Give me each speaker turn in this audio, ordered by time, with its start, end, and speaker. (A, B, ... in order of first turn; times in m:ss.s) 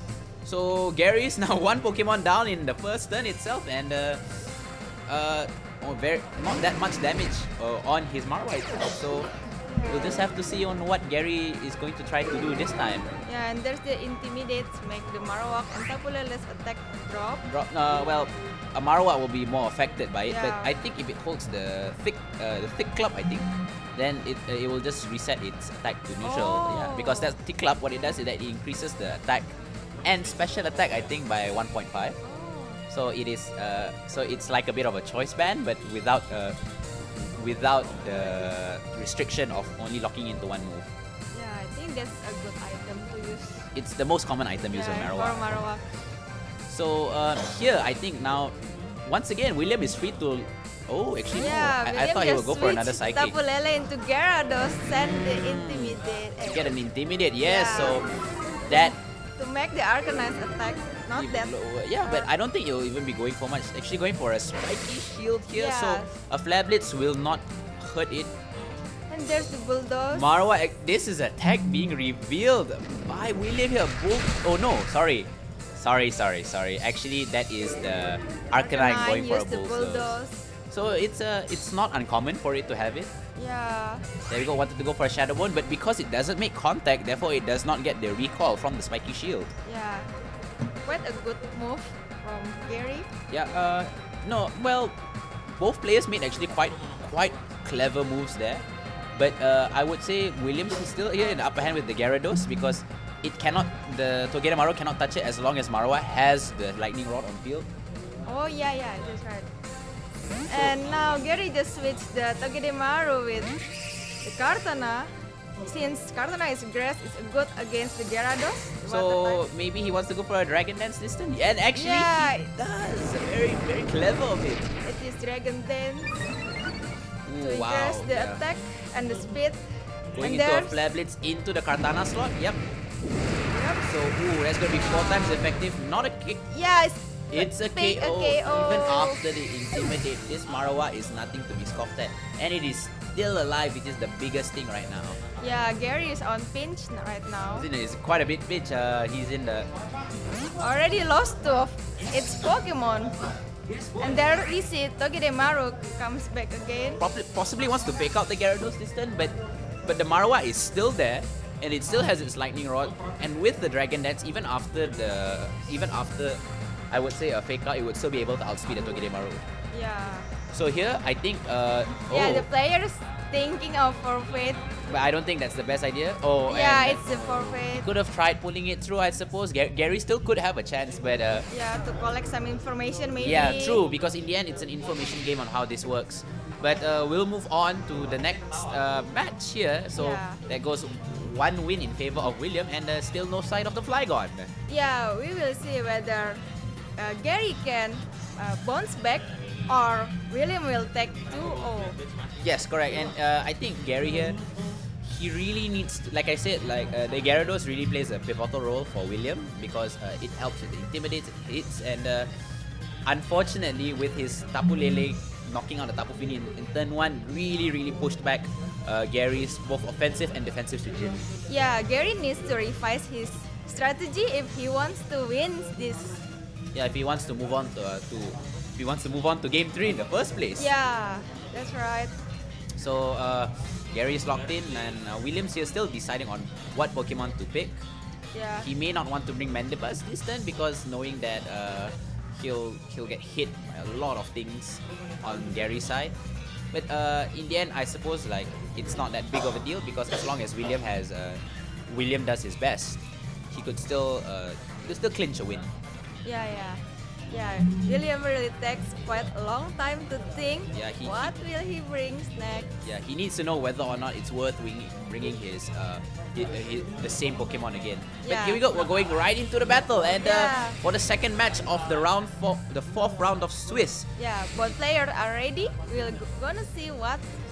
0:00.4-0:04.2 A
0:05.1-0:09.3 A
0:09.7-0:10.2 B
0:09.9-0:13.1 A
0:13.2-0:17.4 B
0:17.5-0:29.5 A
0:20.3-0:20.7 B
0:26.2-0:27.3 B
0:30.0-0:32.2 A
0:32.2-0:32.8 B
0:32.9-0:36.6 A
0:37.2-0:40.9 A
0:41.3-0:43.6 B
0:43.7-0:45.4 A
0:44.7-0:45.8 B
0:46.7-0:53.3 A
0:51.4-0:56.6 B
0:54.9-0:58.1 A
0:57.4-0:58.0 B
0:58.7-0:58.9 A
0:58.7-1:02.3 B
1:01.1-1:08.3 A
1:05.5-1:06.1 B
1:09.1-1:10.3 B
1:10.1-1:20.2 A
1:18.6-1:20.4 B
1:20.7-1:23.1 A
1:23.4-1:24.0 B
1:24.3-1:29.5 A
1:29.6-1:30.1 B
1:30.8-1:33.1 B
1:33.3-1:35.0 A
1:35.5-1:38.6 A
1:39.2-1:47.7 A
1:48.2-1:49.5 B
1:50.5-1:50.8 A
1:50.5-1:53.6 B
1:54.2-1:55.1 B
1:55.6-1:59.4 B
1:58.9-2:04.7 A
2:01.7-2:02.5 B
2:04.8-2:06.1 B
2:07.2-2:08.4 A
2:07.4-2:09.6 B
2:10.1-2:12.6 A
2:10.2-2:10.8 B
2:13.5-2:13.8 B
2:13.8-2:16.4 A
2:14.7-2:15.4 B
2:16.5-2:19.2 B
2:17.3-2:25.2 A
2:25.4-2:27.7 B
2:27.5-2:29.7 A
2:30.6-2:33.2 B
2:34.0-2:37.0 B
2:37.0-2:46.4 A
2:46.9-2:49.4 A
2:49.7-2:50.3 B
2:50.5-2:52.5 A
2:52.1-2:54.6 B
2:54.9-3:01.5 A
2:56.5-2:57.9 B
3:01.5-3:03.8 B
3:03.2-3:14.5 A
3:10.0-3:10.4 B
3:14.7-3:16.4 B
3:17.0-3:22.0 B
3:22.4-3:24.4 A
3:25.0-3:32.3 A
3:33.0-3:41.2 A
3:41.5-3:46.2 B
3:46.7-3:50.7 A
3:50.6-3:52.1 B
3:52.7-3:57.8 A
3:58.3-3:58.7 B
3:58.6-4:06.1 A
4:06.7-4:15.7 A
4:16.2-4:22.7 B
4:20.7-4:21.3 A
4:22.8-4:34.1 A
4:28.2-4:28.6 B
4:30.2-4:30.8 B
4:34.2-4:37.3 B